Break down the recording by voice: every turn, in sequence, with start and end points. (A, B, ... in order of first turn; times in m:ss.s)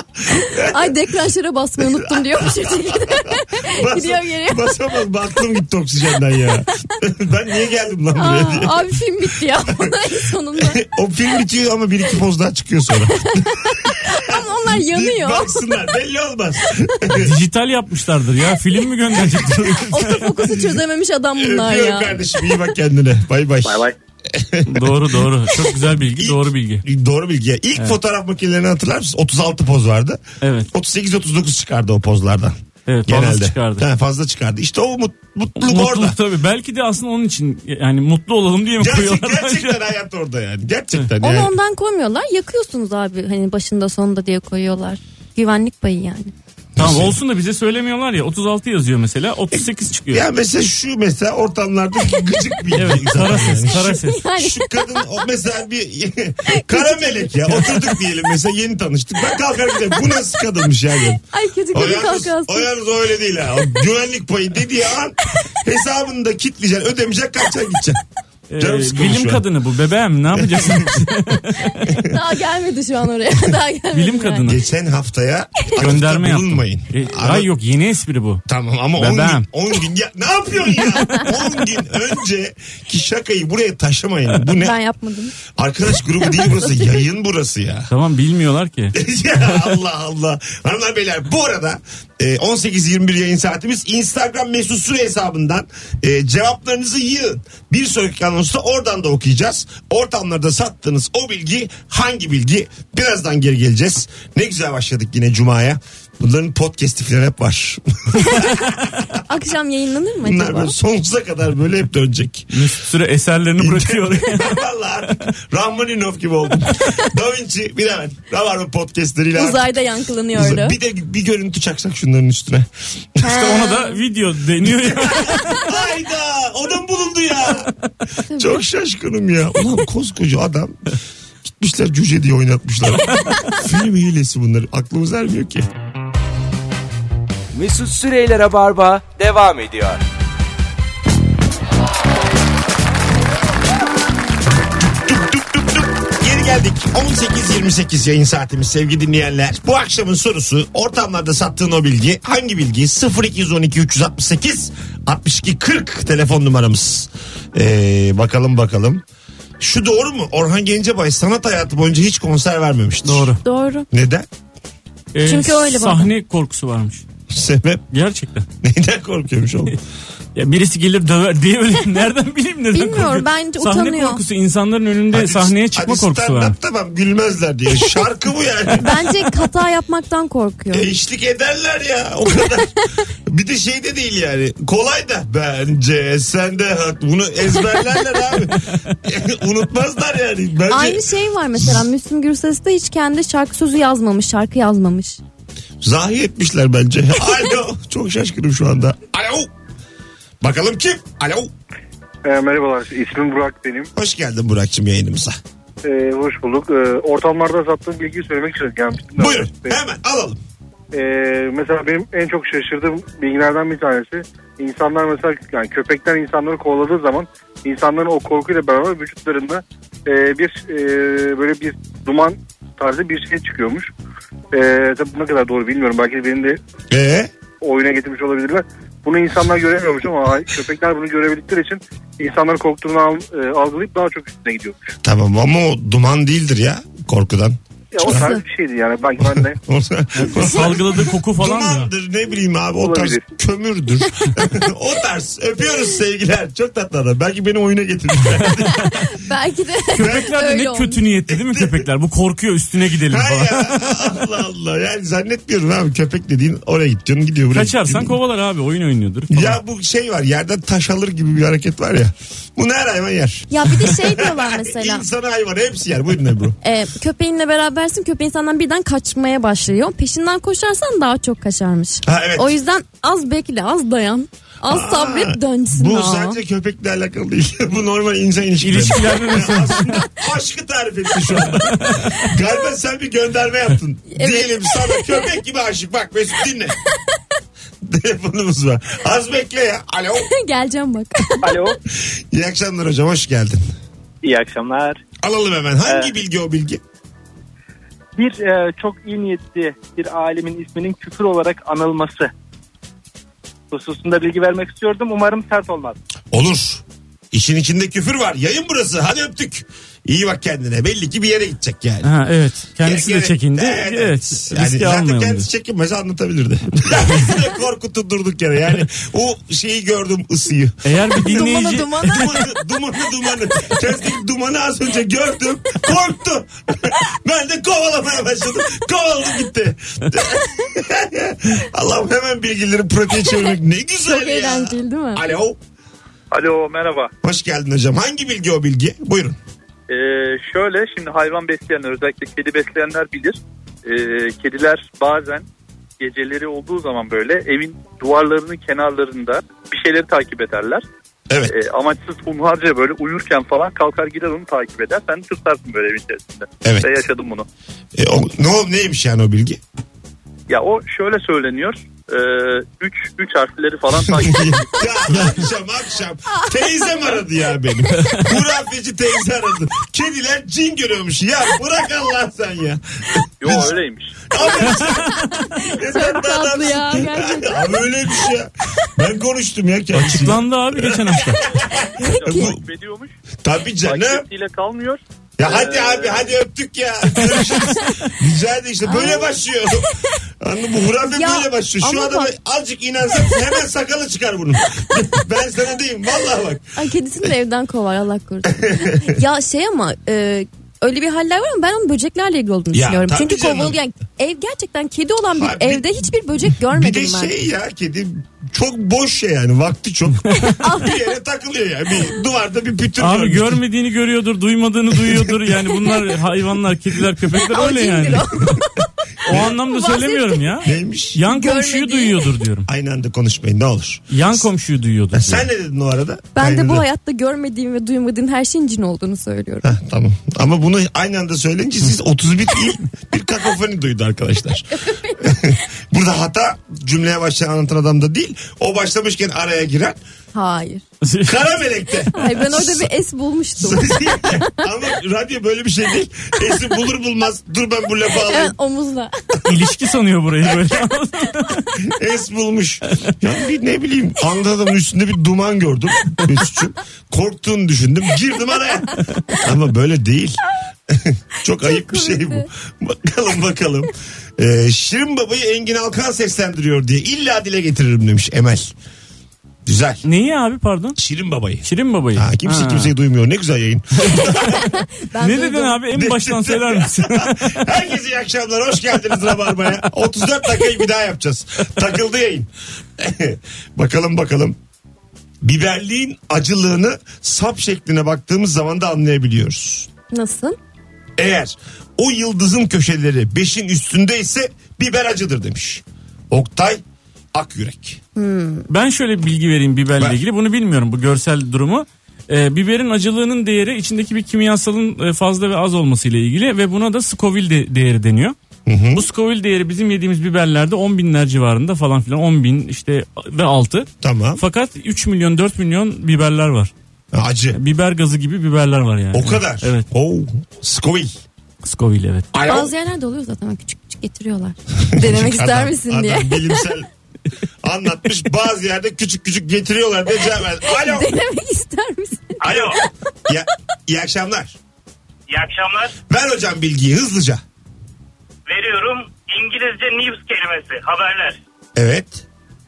0:00.4-0:00.9 A
0:00.6-0:04.7 B
0:01.8-0:08.8 A
0:08.1-0:10.8 B
0:09.7-0:09.9 A
0:10.6-0:17.3 A
0:13.9-0:15.6 B
0:17.1-0:20.2 C
0:19.2-0:20.6 A
0:19.9-0:22.5 B
0:21.4-0:25.2 A
0:24.7-0:26.8 C
0:26.2-0:30.2 A
0:30.4-0:30.7 C
0:30.7-0:32.6 A
0:32.9-0:33.8 C
0:33.1-0:36.2 A
0:35.6-0:39.8 C
0:38.8-0:41.5 A
0:41.2-0:46.3 B
0:46.8-0:47.2 A
0:46.8-0:50.2 C
0:49.5-1:01.2 A
0:52.7-0:54.2 C
0:53.7-0:55.0 B
0:56.5-0:58.0 B
0:59.7-1:00.0 B
1:01.3-1:02.7 B
1:01.7-1:08.0 A
1:08.5-1:11.8 C
1:08.6-1:09.4 A
1:10.3-1:11.1 A
1:11.9-1:14.5 B
1:13.9-1:14.6 C
1:14.4-1:17.5 A
1:15.8-1:18.4 C
1:18.5-1:24.8 A
1:19.0-1:19.4 C
1:24.6-1:25.4 B
1:25.5-1:27.9 A
1:26.2-1:26.9 B
1:27.9-1:29.0 C
1:28.9-1:48.6 A
1:48.2-1:48.5 B
1:49.3-1:50.8 B
1:50.2-1:52.7 A
1:52.5-1:54.6 C
1:53.6-1:59.7 A
1:59.3-2:00.8 B
2:00.3-2:03.4 A
2:03.2-2:04.0 B
2:03.3-2:05.6 C
2:04.7-2:07.7 A
2:08.3-2:08.6 B
2:08.3-2:10.8 A
2:11.4-2:15.6 A
2:17.5-2:20.0 D
2:24.9-2:39.0 A
2:39.6-2:43.3 A
2:43.0-2:43.4 C
2:43.4-2:43.9 B
2:43.9-2:44.3 A
2:45.1-2:47.0 C
2:45.2-2:46.1 B
2:47.3-2:47.8 A
2:47.9-2:48.4 C
2:48.6-2:49.8 A
2:50.3-2:56.5 C
2:52.7-2:54.2 B
2:55.1-2:58.9 A
2:58.8-3:00.9 B
3:00.7-3:02.7 A
3:03.3-3:11.0 A
3:10.7-3:15.2 B
3:15.8-3:19.5 A
3:20.4-3:21.5 A
3:22.2-3:23.9 E
3:23.9-3:25.4 A
3:25.8-3:29.8 E
3:29.2-3:30.4 A
3:30.9-3:43.9 E
3:44.5-3:46.6 E
3:46.9-3:47.3 A
3:47.6-3:54.9 E
3:55.0-3:58.3 A
3:57.9-3:59.6 E
3:58.0-3:58.4 B
3:59.2-4:09.1 A
4:00.1-4:01.9 C
4:08.8-4:11.0 B
4:09.9-4:14.1 C
4:10.0-4:10.3 A
4:11.3-4:11.8 A
4:13.1-4:18.2 A
4:17.5-4:19.6 C
4:19.3-4:26.5 A
4:23.5-4:25.0 B
4:26.6-4:36.4 B
4:32.0-4:32.5 A
4:34.6-4:46.8 A
4:38.6-4:40.0 C
4:41.7-4:42.1 C
4:44.1-4:45.3 B
4:47.8-4:50.3 A
4:50.2-4:51.7 B
4:51.4-4:51.7 F
4:51.9-4:53.6 A
4:54.2-4:55.0 F
4:55.2-4:56.8 A
4:58.2-5:02.3 F
5:03.7-5:06.0 F
5:06.3-5:12.1 A
5:12.0-5:15.5 C
5:12.8-5:35.6 A
5:20.8-5:22.4 C
5:21.2-5:22.4 B
5:34.0-5:35.2 B
5:36.3-5:37.1 G
5:37.2-5:39.4 A
5:39.9-5:45.4 G
5:46.0-5:50.8 G
5:51.5-5:57.4 G
5:56.6-5:57.0 A
5:57.9-5:59.6 A
6:00.5-6:04.9 G
6:04.1-6:13.7 A
6:05.1-6:05.4 C
6:13.4-6:14.3 G
6:14.3-6:22.6 A
6:14.3-6:17.8 B
6:19.9-6:21.4 C
6:21.8-6:23.1 G
6:22.2-6:22.6 B
6:23.4-6:24.2 A
6:23.8-6:26.3 G
6:25.4-6:29.9 A
6:28.8-6:29.8 B
6:30.4-6:36.7 A
6:31.1-6:32.3 B
6:36.7-6:47.3 B
6:38.5-6:39.1 A
6:42.7-6:43.8 A
6:45.3-6:45.9 A
6:46.7-6:53.6 A
6:50.6-6:51.0 B
6:53.0-6:58.5 C
6:55.0-6:55.3 A
6:57.3-7:00.6 B
6:59.2-7:02.7 C
7:00.6-7:01.2 A
7:01.3-7:02.3 B
7:02.7-7:04.5 A
7:04.1-7:05.4 C
7:05.1-7:06.8 A
7:06.3-7:09.7 B
7:09.6-7:14.7 A
7:14.7-7:15.6 B
7:15.2-7:20.0 A
7:20.3-7:20.8 B
7:21.0-7:21.4 C
7:21.2-7:22.9 A
7:22.1-7:24.6 B
7:23.6-7:28.5 A
7:28.1-7:29.4 B
7:29.4-7:31.7 C
7:31.8-7:48.7 A
7:41.6-7:42.4 B
7:49.6-7:50.0 A
7:50.0-7:51.0 C
7:51.0-7:54.7 A
7:51.6-7:52.9 C
7:54.0-7:54.3 C
7:54.3-7:55.8 B
7:55.2-7:57.6 C
7:55.9-8:04.6 A
8:05.4-8:09.9 A
8:10.1-8:10.6 B
8:11.2-8:16.8 A
8:17.3-8:18.0 A
8:18.2-8:18.7 B
8:18.7-8:28.4 C
8:28.6-8:29.1 A
8:28.9-8:36.7 C
8:34.0-8:34.4 A
8:37.1-8:37.6 A
8:37.5-8:39.8 C
8:39.1-8:41.2 A
8:41.6-8:42.3 C
8:42.3-8:42.7 A
8:42.4-8:46.7 B
8:44.9-8:46.9 A
8:47.6-8:51.1 A
8:50.6-8:52.9 B
8:52.4-8:52.8 H
8:52.5-8:52.8 A
8:53.3-8:54.6 A
8:55.3-8:56.0 H
8:56.1-8:57.4 A
8:58.5-9:01.4 H
9:01.8-9:02.2 A